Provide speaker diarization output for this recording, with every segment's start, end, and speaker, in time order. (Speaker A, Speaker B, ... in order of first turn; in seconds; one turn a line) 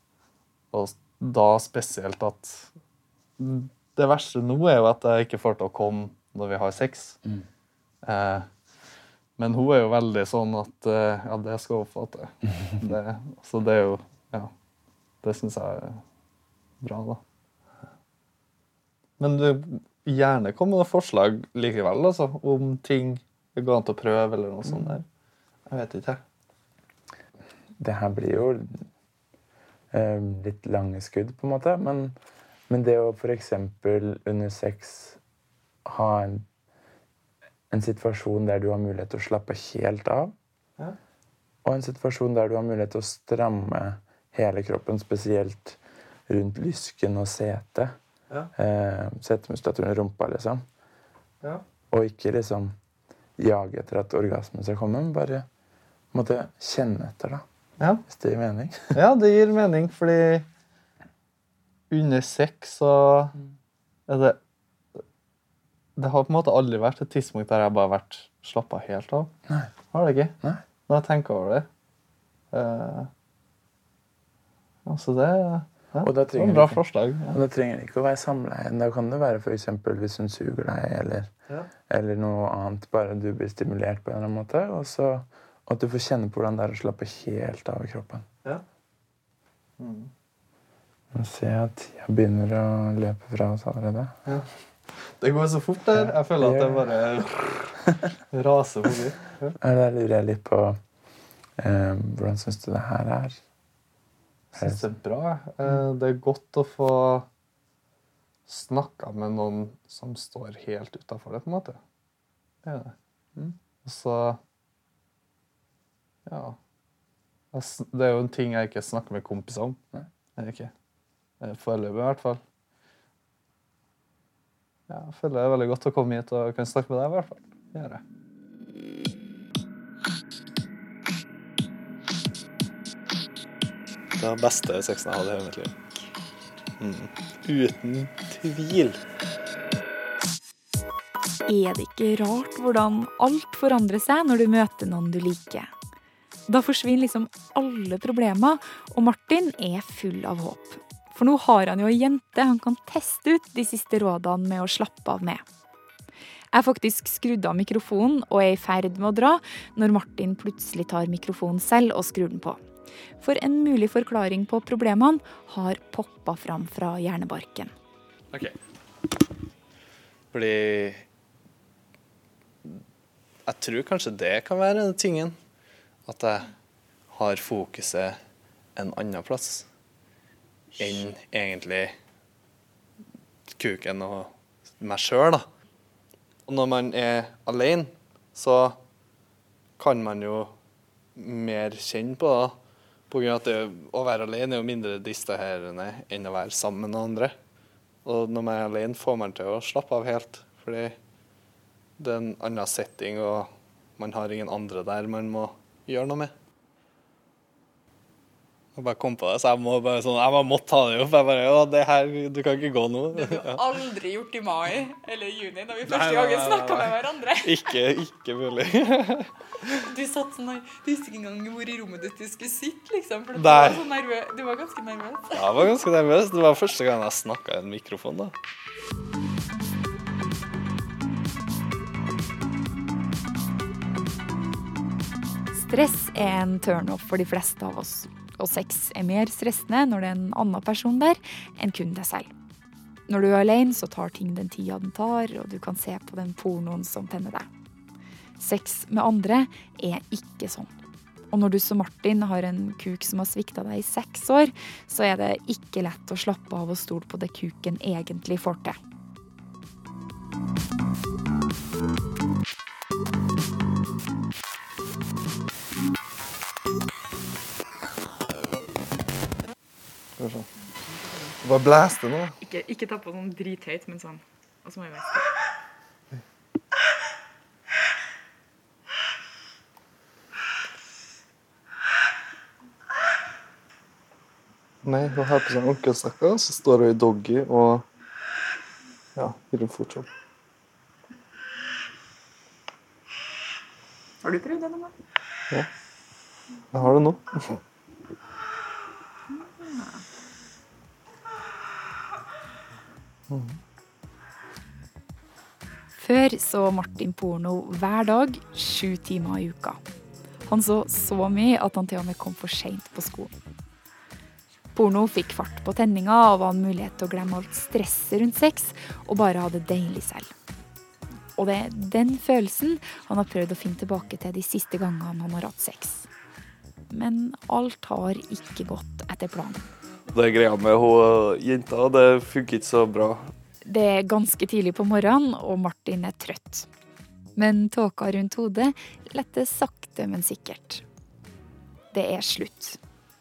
Speaker A: 0.7-2.7
Speaker A: 3.4-7.2
Speaker A: 8.0-8.5
Speaker A: 9.4-14.5
Speaker A: 15.2-16.0
Speaker A: 16.8-17.2
Speaker A: 19.2-25.1
Speaker A: 25.7-26.2
Speaker B: 27.8-28.9
Speaker B: 29.9-32.2
Speaker B: 32.7-35.2
Speaker B: 35.9-36.5
Speaker B: 37.7-40.4
Speaker B: 41.6-48.0
Speaker B: 48.5-50.6
Speaker B: 51.9-52.8
Speaker B: 53.4-55.5
Speaker B: 56.1-57.5
Speaker B: 58.0-59.0
Speaker A: 58.9-60.5
Speaker A: 61.9-63.4
Speaker A: 64.1-64.4
Speaker A: 66.0-69.3
Speaker A: 69.9-71.7
Speaker A: 72.5-73.1
Speaker A: 74.9-77.4
Speaker B: 76.0-81.3
Speaker B: 81.9-88.3
Speaker A: 89.8-90.1
Speaker B: 91.1-94.2
Speaker A: 95.2-97.7
Speaker B: 96.0-96.9
Speaker A: 98.3-99.6
Speaker B: 99.6-100.8
Speaker B: 101.6-103.4
Speaker A: 104.5-107.3
Speaker B: 104.6-104.9
Speaker A: 108.5-111.8
Speaker A: 112.6-114.4
Speaker A: 116.3-116.6
Speaker A: 117.5-119.8
Speaker A: 120.4-120.7
Speaker A: 121.4-122.4
Speaker A: 124.9-128.0
Speaker A: 134.2-135.7
Speaker A: 136.8-139.0
Speaker C: 141.5-145.7
Speaker C: 146.5-155.4
Speaker C: 156.5-162.6
Speaker C: 163.2-167.7
Speaker A: 170.3-171.1
Speaker A: 173.4-175.4
Speaker A: 176.1-176.5
Speaker A: 177.1-178.2
Speaker A: 178.8-179.7
Speaker A: 180.8-181.9
Speaker A: 183.5-185.5
Speaker A: 186.5-188.8
Speaker A: 189.8-190.5
Speaker A: 191.2-192.6
Speaker A: 193.1-197.4
Speaker A: 198.1-201.0
Speaker A: 202.0-206.3
Speaker A: 208.8-213.7
Speaker C: 213.1-217.7
Speaker A: 215.8-216.9
Speaker A: 217.4-219.3
Speaker C: 219.7-225.7
Speaker A: 223.3-223.9
Speaker A: 225.3-228.3
Speaker C: 235.5-242.3
Speaker C: 243.1-247.5
Speaker C: 248.4-250.7
Speaker C: 251.3-258.8
Speaker D: 270.2-270.5
Speaker D: 271.4-272.3
Speaker C: 272.4-275.3
Speaker D: 284.8-287.9
Speaker A: 289.2-289.4
Speaker D: 289.4-290.1
Speaker C: 294.2-294.9
Speaker D: 296.8-297.6
Speaker C: 299.3-300.0
Speaker D: 303.3-303.6
Speaker C: 306.0-309.8
Speaker C: 310.5-313.3
Speaker C: 314.7-320.3
Speaker C: 321.4-326.1
Speaker C: 326.9-329.6
Speaker D: 330.1-333.3
Speaker C: 333.7-336.7
Speaker C: 337.4-340.8
Speaker C: 341.9-342.8